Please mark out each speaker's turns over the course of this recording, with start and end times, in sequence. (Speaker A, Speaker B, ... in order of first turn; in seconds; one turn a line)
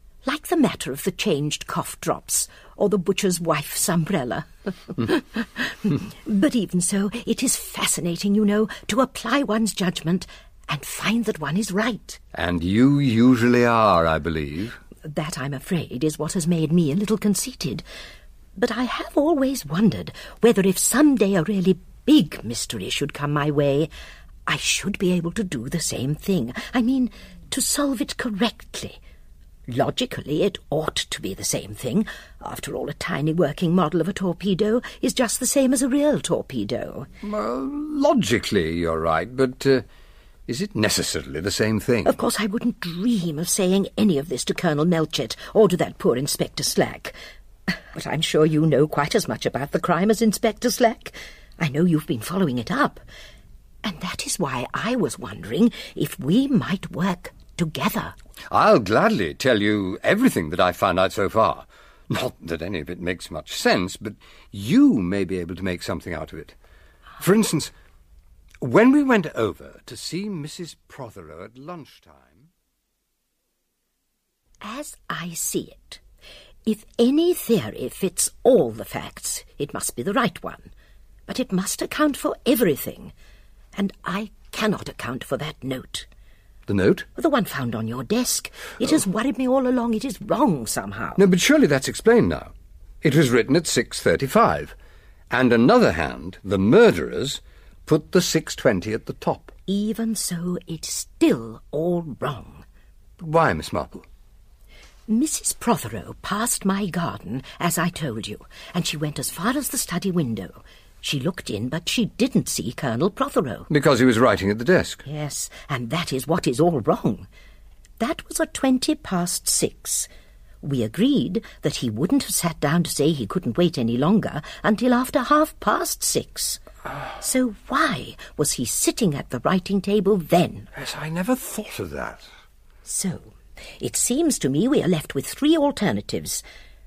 Speaker A: 0.2-12.2
Speaker B: 12.3-14.8
Speaker A: 15.0-17.8
Speaker A: 18.6-23.9
Speaker A: 24.4-29.0
Speaker A: 29.7-37.1
Speaker B: 37.2-39.8
Speaker B: 40.5-42.2
Speaker A: 42.0-47.1
Speaker A: 47.9-53.0
Speaker A: 53.8-58.1
Speaker B: 58.5-66.5
Speaker B: 67.2-67.7
Speaker B: 68.6-72.5
Speaker A: 74.6-76.0
Speaker A: 76.7-80.7
Speaker A: 81.3-83.1
Speaker A: 83.7-86.1
Speaker B: 86.7-87.1
Speaker A: 87.2-91.2
Speaker B: 91.2-94.7
Speaker B: 95.3-99.5
Speaker A: 99.7-102.6
Speaker B: 103.2-104.0
Speaker A: 105.1-113.7
Speaker B: 113.7-115.0
Speaker A: 115.0-117.3
Speaker A: 118.0-120.1
Speaker A: 120.6-126.6
Speaker A: 127.2-130.7
Speaker B: 130.7-132.2
Speaker A: 132.8-136.4